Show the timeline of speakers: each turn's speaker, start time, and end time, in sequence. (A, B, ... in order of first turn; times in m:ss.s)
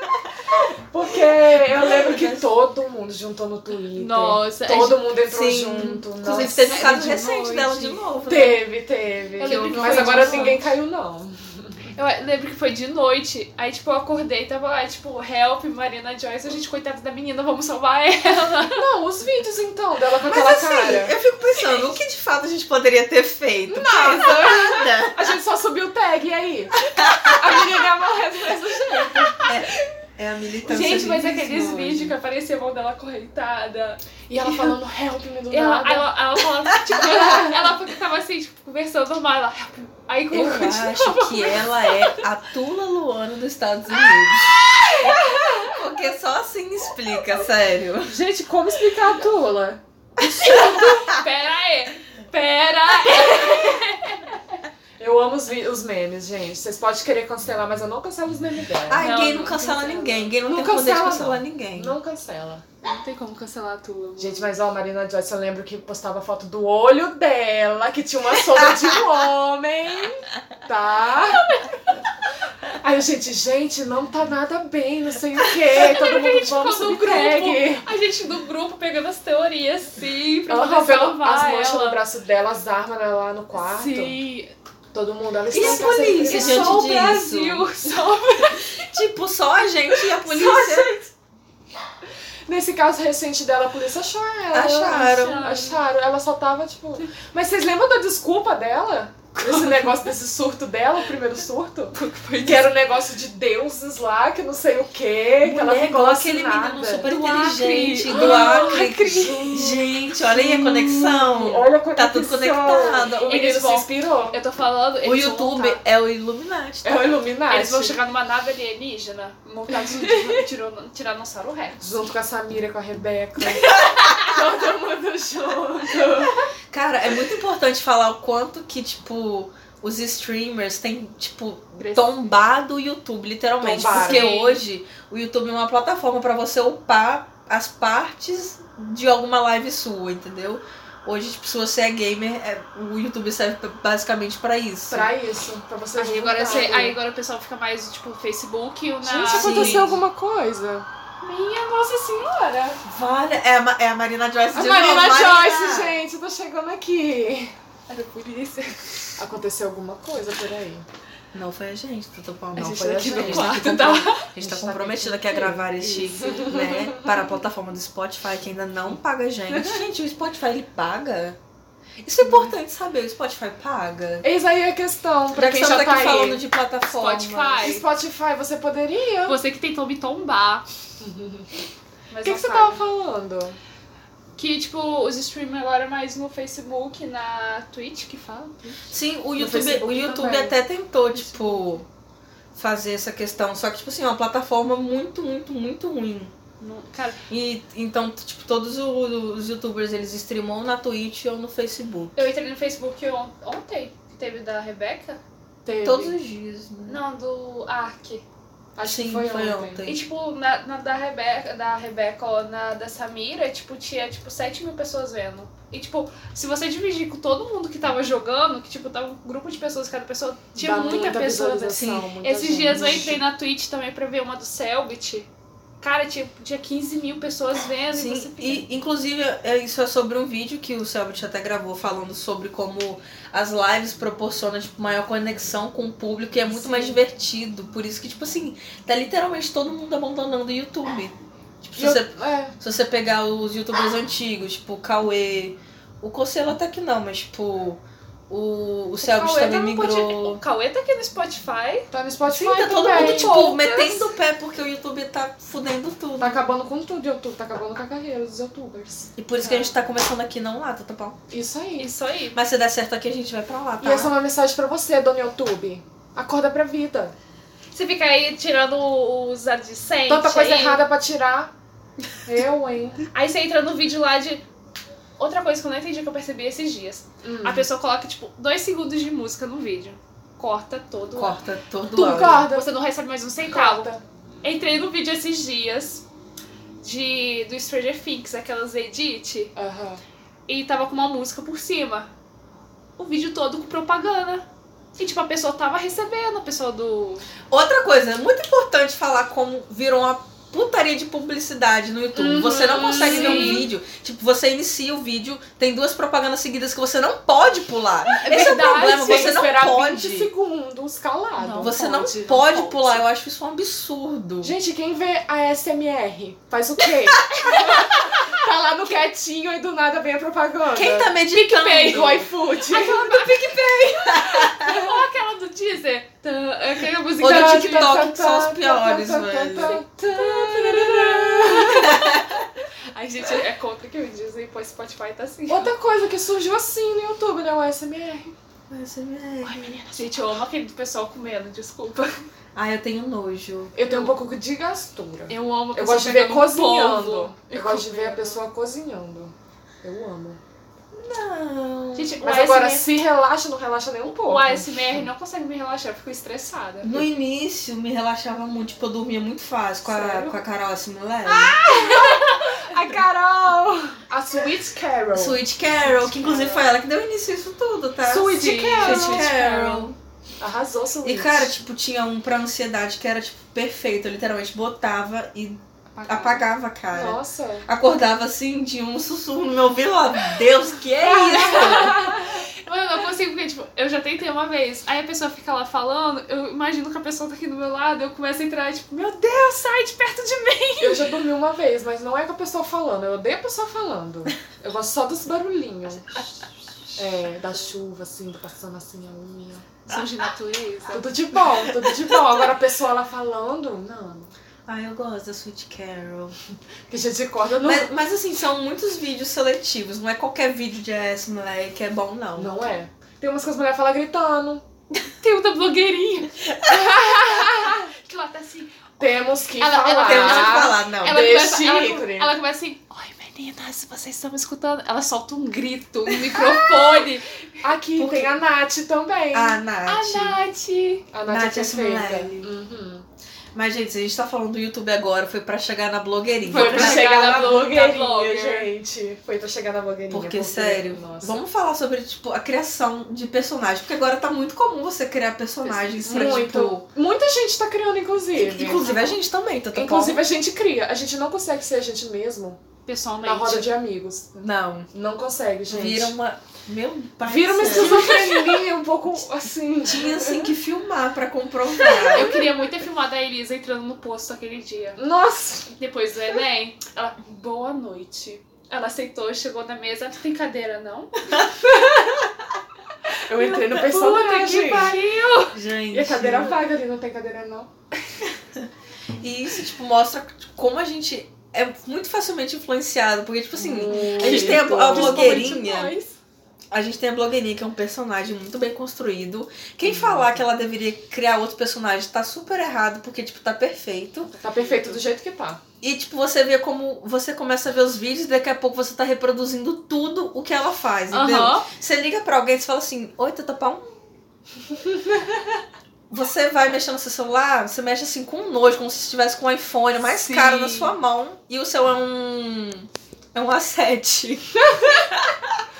0:00.5-0:06.9 A
0:01.7-0:02.4 B
0:03.9-0:05.1 C
0:05.1-0:08.6 B
0:06.4-0:08.0 C
0:08.2-0:11.9 A
0:09.4-0:10.6 C
0:09.4-0:10.6 B
0:11.9-0:18.9 C
0:18.6-0:21.1 A
0:20.2-0:25.3 B
0:21.6-0:22.0 C
0:23.7-0:29.6 A
0:26.9-0:27.4 B
0:29.4-0:32.1 B
0:30.6-0:34.7 C
0:34.3-0:36.1 A
0:35.5-0:42.2 C
0:36.9-0:37.6 A
0:40.3-0:48.2 B
0:44.1-0:45.7 C
0:48.0-0:50.9 A
0:50.2-0:51.2 B
0:50.4-0:54.6 C
0:53.1-0:53.7 A
0:55.0-0:59.1 A
0:58.9-1:02.0 B
0:59.0-1:00.4 C
1:00.4-1:02.6 A
1:02.8-1:04.5 C
1:04.2-1:11.5 A
1:11.3-1:11.8 C
1:12.6-1:17.8 A
1:15.7-1:22.0 C
1:20.5-1:24.2 A
1:23.6-1:24.5 C
1:24.9-1:26.8 A
1:25.5-1:27.7 B
1:25.6-1:28.8 C
1:28.6-1:31.0 B
1:30.2-1:31.0 C
1:32.4-1:47.1 A
1:34.5-1:35.4 B
1:34.8-1:35.8 C
1:41.9-1:42.7 C
1:45.4-1:53.3 B
1:47.0-1:48.9 C
1:48.0-1:54.4 A
1:53.2-1:55.8 C
1:55.0-1:57.1 B
1:56.8-1:58.0 A
1:57.5-2:02.0 C
1:59.7-2:00.4 A
2:01.8-2:06.4 A
2:03.8-2:04.3 C
2:06.7-2:25.1 B
2:11.8-2:12.3 C
2:13.6-2:14.3 A
2:13.8-2:14.6 C
2:24.9-2:27.0 A
2:26.0-2:29.9 C
2:29.0-2:30.9 A
2:29.3-2:30.0 B
2:31.2-2:32.8 C
2:32.8-2:36.0 B
2:34.5-2:37.5 A
2:37.9-2:39.1 C
2:39.2-2:40.8 A
2:41.3-2:51.4 B
2:42.5-2:47.1 A
2:42.8-2:44.3 C
2:52.0-2:54.3 B
2:54.2-2:56.4 A
2:55.3-2:57.7 B
2:56.9-2:57.8 C
2:57.6-2:59.4 A
2:59.2-3:00.6 C
3:01.0-3:01.6 A
3:02.1-3:02.8 C
3:02.2-3:03.6 A
3:04.4-3:08.9 C
3:08.9-3:11.8 B
3:09.4-3:10.6 A
3:11.1-3:11.7 C
3:12.5-3:16.3 B
3:16.6-3:17.2 C
3:17.3-3:22.2 B
3:22.2-3:25.2 C
3:25.6-3:26.2 A
3:25.8-3:27.0 B
3:26.9-3:28.2 C
3:28.8-3:29.8 A
3:28.8-3:30.0 B
3:29.8-3:45.3 C
3:40.6-3:43.2 A
3:41.8-3:42.0 B
3:45.8-3:48.7 C
3:47.9-4:10.4 B
3:56.5-3:57.0 A
4:01.8-4:02.5 A
4:09.0-4:11.9 C
4:11.9-4:13.6 A
4:12.3-4:16.5 B
4:13.0-4:14.1 C
4:16.2-4:19.1 A
4:19.2-4:21.2 B
4:19.4-4:19.7 C
4:21.3-4:21.9 A
4:21.8-4:22.4 C
4:22.3-4:24.1 B
4:23.8-4:27.1 A
4:27.7-4:30.8 C
4:30.1-4:31.5 A
4:32.2-4:33.0 A
4:33.1-4:34.4 C
4:35.2-4:41.4 C
4:37.2-4:37.7 A
4:41.2-4:42.4 B
4:42.0-4:42.7 A
4:42.0-4:46.0 C
4:43.4-4:44.0 A
4:46.8-4:49.5 C
4:49.6-4:50.0 A
4:50.5-4:52.1 C
4:53.0-4:54.4 C
4:55.0-4:57.3 C
4:57.5-5:10.3 B
5:02.2-5:03.7 A
5:02.6-5:03.7 C
5:08.1-5:09.5 C
5:08.2-5:11.8 A
5:11.4-5:13.0 C
5:11.6-5:14.5 B
5:14.4-5:21.2 A
5:17.2-5:17.7 B
5:17.6-5:17.9 C
5:20.7-5:22.3 B
5:21.3-5:28.0 C
5:21.8-5:23.3 A
5:24.0-5:24.7 B
5:24.6-5:25.0 A
5:27.2-5:29.8 B
5:27.2-5:32.0 A
5:29.6-5:35.7 C
5:31.5-5:32.4 B
5:35.5-5:38.3 A
5:38.7-5:39.8 B
5:39.4-5:42.2 C
5:42.5-5:43.7 B
5:43.7-5:50.4 A
5:43.8-5:44.1 C
5:45.3-5:48.4 C
5:50.9-5:52.2 B
5:52.0-5:52.9 C
5:52.2-5:54.8 A
5:54.2-5:57.0 C
5:56.8-6:01.6 B
5:59.8-6:00.4 A
6:01.3-6:02.6 C
6:01.5-6:06.6 A
6:05.1-6:10.0 B
6:08.0-6:11.5 A
6:08.1-6:09.5 C
6:11.0-6:22.2 B
6:15.9-6:16.5 C
6:16.9-6:17.7 A
6:21.1-6:31.1 C
6:21.2-6:22.2 A
6:30.8-6:36.2 A
6:37.0-6:39.7 A
6:39.9-6:41.1 C
6:40.9-6:44.3 A
6:44.7-6:46.4 B
6:46.9-6:47.9 A
6:47.6-6:52.5 B
6:52.4-6:54.6 A
6:55.2-6:59.0 C
6:57.0-6:57.8 A
6:59.0-7:02.3 A
6:59.6-7:07.6 C
7:00.0-7:01.2 B
7:06.3-7:06.9 A
7:07.6-7:09.6 A
7:08.0-7:08.3 B
7:09.3-7:10.4 B
7:09.9-7:11.1 C
7:11.1-7:13.0 A
7:11.3-7:12.5 B
7:13.5-7:17.2 B
7:16.4-7:18.7 C
7:16.4-7:21.4 A
7:20.1-7:26.9 B
7:25.6-7:26.5 C
7:26.0-7:29.1 A
7:28.4-7:30.2 B
7:29.7-7:32.6 A
7:32.8-7:33.7 C
7:33.2-7:36.1 A
7:34.4-7:34.9 B
7:35.7-7:38.1 B
7:37.2-7:40.5 A
7:37.7-7:38.6 C
7:39.8-7:42.4 B
7:41.9-7:45.0 C
7:41.9-7:42.5 A
7:45.0-7:45.7 A
7:45.7-7:52.3 C
7:53.2-7:55.0 A
7:53.3-7:55.5 C
7:55.5-7:56.6 B
7:55.9-7:57.7 A
7:59.2-8:05.9 B
8:03.6-8:06.2 A
8:03.9-8:05.5 C
8:06.7-8:14.3 B
8:09.8-8:10.4 A
8:14.3-8:15.0 C
8:14.4-8:15.6 A
8:15.8-8:23.9 B
8:21.1-8:21.7 C
8:26.1-8:35.6 B
8:30.1-8:30.9 C